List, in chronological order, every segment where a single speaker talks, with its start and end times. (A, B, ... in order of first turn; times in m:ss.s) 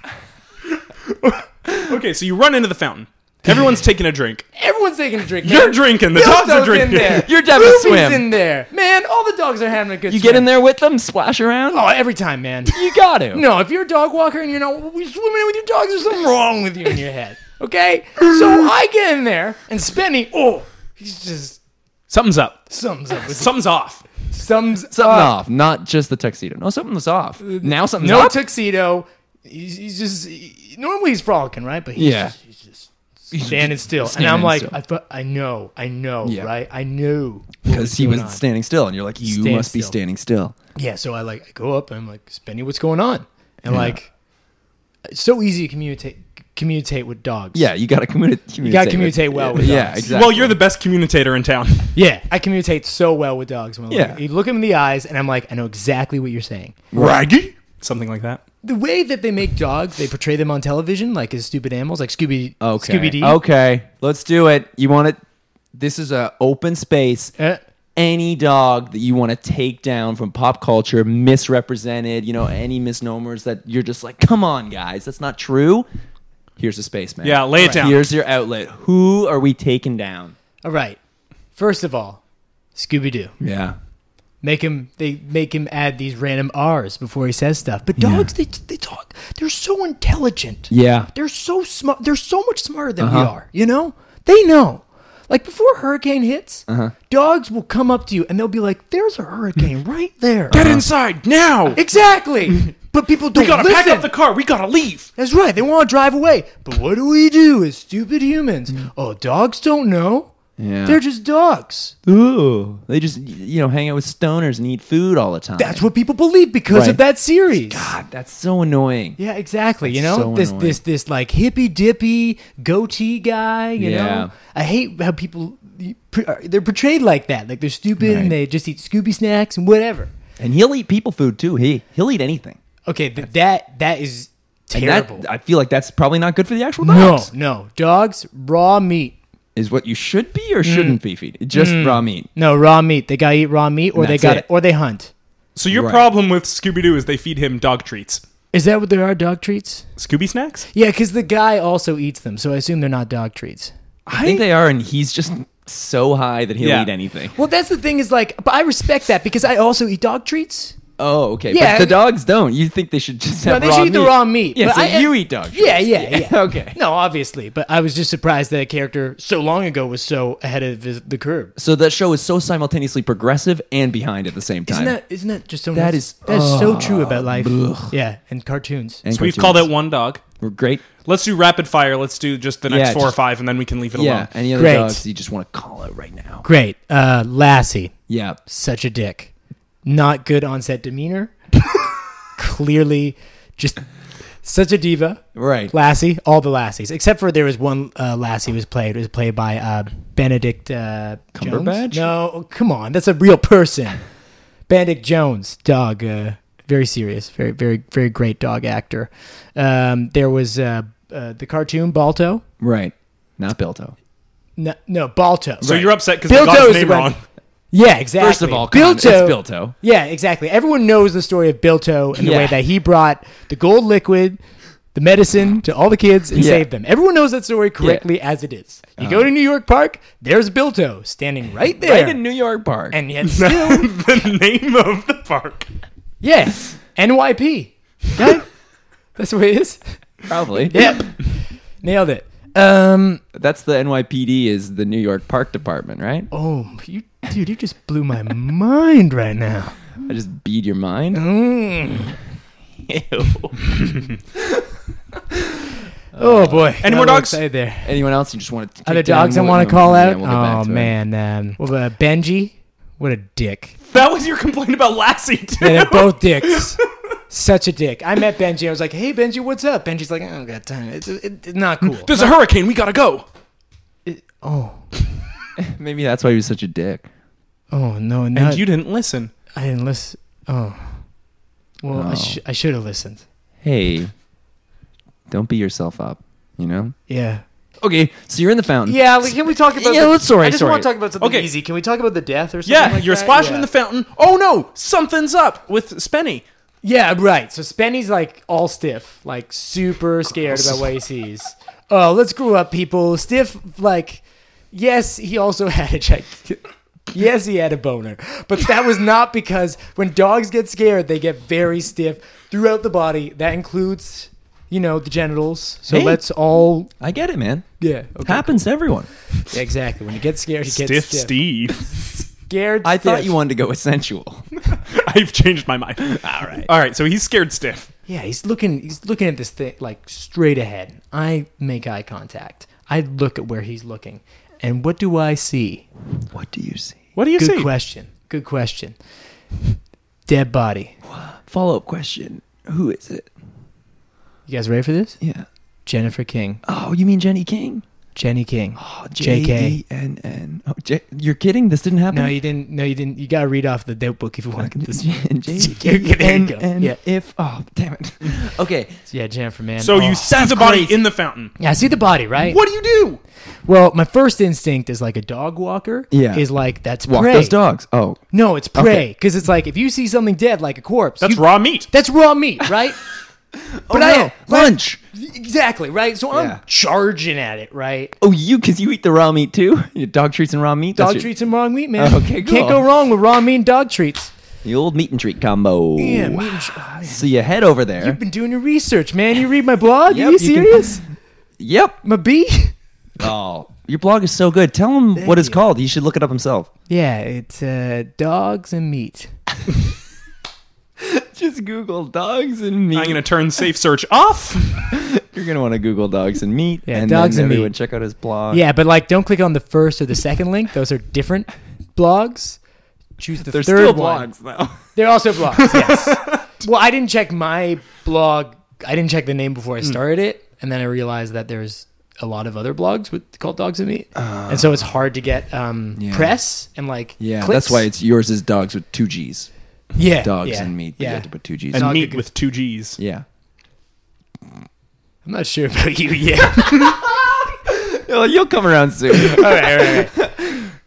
0:01.2-0:04.4 A
0:01.7-0:01.9 B
0:04.6-0:10.5 C
0:05.4-0:07.2 A
0:07.1-0:08.3 B
0:10.1-0:11.8 B
0:11.7-0:12.8 C
0:12.6-0:13.4 B
0:13.3-0:21.6 C
0:22.1-0:22.6 A
0:22.7-0:23.5 C
0:23.2-0:24.0 A
0:24.3-0:25.3 C
0:24.9-0:28.4 B
0:27.4-0:38.4 C
0:32.0-0:32.3 B
0:33.3-0:34.8 B
0:36.2-0:36.5 B
0:37.6-0:40.5 B
0:39.2-0:40.0 C
0:40.7-0:44.1 C
0:43.7-0:44.0 B
0:45.0-0:47.7 C
0:47.5-0:50.6 B
0:48.6-0:50.1 C
0:50.0-0:51.9 A
0:51.9-0:56.8 C
0:53.9-0:54.2 B
0:56.9-0:57.5 B
0:57.8-0:58.4 A
0:58.6-1:03.4 C
1:02.6-1:05.2 B
1:05.7-1:07.3 B
1:08.0-1:15.8 B
1:16.6-1:20.3 B
1:17.2-1:18.0 A
1:17.6-1:17.9 C
1:20.6-1:21.0 C
1:21.5-1:22.2 C
1:22.7-1:23.3 C
1:23.4-1:23.8 B
1:24.4-1:40.6 C
1:28.0-1:28.3 B
1:30.7-1:31.1 B
1:33.0-1:33.3 B
1:36.7-1:36.9 B
1:40.5-1:40.8 B
1:40.5-1:41.8 A
1:41.7-1:44.1 C
1:43.3-1:45.1 A
1:45.2-1:50.3 C
1:50.6-1:51.0 B
1:50.8-1:51.9 C
1:52.0-1:55.9 B
1:55.6-1:57.9 C
1:56.7-1:57.0 B
1:57.6-1:59.2 B
1:59.2-2:10.1 C
1:59.8-2:00.8 B
2:03.8-2:04.3 B
2:08.0-2:08.4 B
2:10.4-2:12.6 B
2:12.8-2:15.2 C
2:14.7-2:17.3 B
2:16.8-2:19.2 C
2:19.6-2:22.3 B
2:20.6-2:21.0 C
2:21.5-2:25.1 C
2:23.9-2:24.4 B
2:25.6-2:28.2 A
2:25.7-2:26.1 B
2:28.5-2:29.8 C
2:30.0-2:30.7 A
2:30.7-2:33.7 C
2:34.1-2:37.3 B
2:36.6-2:36.9 A
2:37.3-2:40.8 C
2:41.0-2:46.8 B
2:41.5-2:42.0 C
2:43.4-2:51.5 C
2:51.6-2:55.0 B
2:54.7-2:59.0 C
2:55.7-2:57.9 B
2:59.0-2:59.7 B
2:59.1-3:00.2 A
3:00.4-3:00.8 B
3:01.0-3:04.3 A
3:02.7-3:03.2 B
3:03.9-3:06.4 B
3:04.5-3:05.0 C
3:06.4-3:07.9 C
3:08.1-3:08.4 B
3:08.4-3:09.3 C
3:09.8-3:11.3 C
3:12.4-3:13.8 C
3:14.4-3:24.0 C
3:15.3-3:15.7 B
3:21.3-3:22.1 B
3:24.7-3:32.4 C
3:32.6-3:33.9 B
3:34.6-3:35.7 C
3:35.6-3:35.9 B
3:35.6-3:37.2 A
3:36.2-3:37.1 C
3:37.7-3:44.4 C
3:38.2-3:39.7 B
3:42.1-3:42.6 B
3:44.9-3:52.2 C
3:46.3-3:46.7 B
3:49.0-3:49.3 B
3:51.8-3:53.0 B
3:52.9-3:53.9 C
3:53.2-3:55.7 A
3:56.2-3:58.4 C
3:59.2-3:59.9 C
4:00.3-4:01.0 B
4:00.7-4:01.3 C
4:01.8-4:03.2 C
4:03.3-4:06.3 B
4:06.3-4:09.8 C
4:10.0-4:11.2 B
4:11.1-4:12.2 C
4:12.8-4:13.7 B
4:16.2-4:16.9 B
4:16.2-4:18.0 C
4:16.8-4:17.4 A
4:17.8-4:20.9 B
4:18.8-4:23.8 C
4:23.9-4:26.8 A
4:25.6-4:26.8 C
4:27.3-4:32.3 C
4:31.8-4:33.2 A
4:34.0-4:34.8 C
4:35.6-4:37.1 B
4:37.7-4:38.6 C
4:38.3-4:39.3 A
4:39.5-4:41.0 C
4:41.8-4:43.2 C
4:41.9-4:42.4 B
4:43.6-4:44.1 B
4:45.3-4:47.0 B
4:47.1-4:47.4 C
4:47.8-4:50.9 B
4:48.8-4:53.7 C
4:51.2-4:51.5 A
4:52.6-4:56.4 A
4:56.8-5:16.9 C
5:15.9-5:16.2 B
5:17.0-5:17.7 B
5:17.8-5:18.6 C
5:18.2-5:19.1 B
5:19.4-5:21.3 C
5:20.7-5:21.9 A
5:22.0-5:23.3 C
5:22.8-5:24.5 B
5:24.7-5:27.9 A
5:26.2-5:26.7 B
5:28.1-5:35.8 C
5:36.3-5:37.0 B
5:37.2-5:37.7 A
5:37.4-5:38.9 C
5:40.3-5:41.0 C
5:41.0-5:43.3 B
5:44.5-5:45.2 C
5:45.2-5:45.5 B
5:45.8-5:46.6 C
5:46.6-5:47.8 B
5:48.1-5:49.8 C
5:48.8-5:52.4 B
5:52.1-5:57.0 C
5:54.6-5:59.0 B
5:59.1-6:00.4 C
5:59.8-6:01.5 A
6:00.3-6:01.0 B
6:01.6-6:02.6 C
6:02.4-6:03.2 A
6:03.6-6:07.6 C
6:06.1-6:06.4 B
6:07.0-6:08.2 B
6:08.3-6:13.0 C
6:08.7-6:09.0 B
6:11.2-6:11.9 A
6:13.5-6:15.0 B
6:13.9-6:18.1 C
6:16.3-6:16.6 B
6:18.2-6:21.3 B
6:21.0-6:24.3 C
6:22.0-6:22.8 B
6:24.6-6:28.2 B
6:26.0-6:27.3 C
6:28.0-6:31.0 C
6:30.1-6:31.0 B
6:31.6-6:32.0 B
6:32.0-6:32.7 C
6:33.2-6:36.7 B
6:35.2-6:35.6 C
6:36.9-6:39.3 C
6:41.0-6:43.2 B
6:42.9-6:44.9 A
6:44.9-6:48.6 B
6:46.8-6:47.7 C
6:48.5-6:52.6 C
6:53.2-6:54.3 C
6:53.4-6:54.8 B
6:54.9-7:07.9 C
6:55.7-6:56.4 A
7:04.1-7:04.8 B
7:06.0-7:06.4 B
7:07.2-7:09.5 B
7:10.0-7:12.2 C
7:10.2-7:11.9 B
7:11.7-7:13.0 A
7:13.0-7:13.2 B
7:15.2-7:17.1 C
7:16.8-7:20.7 B
7:19.1-7:20.2 C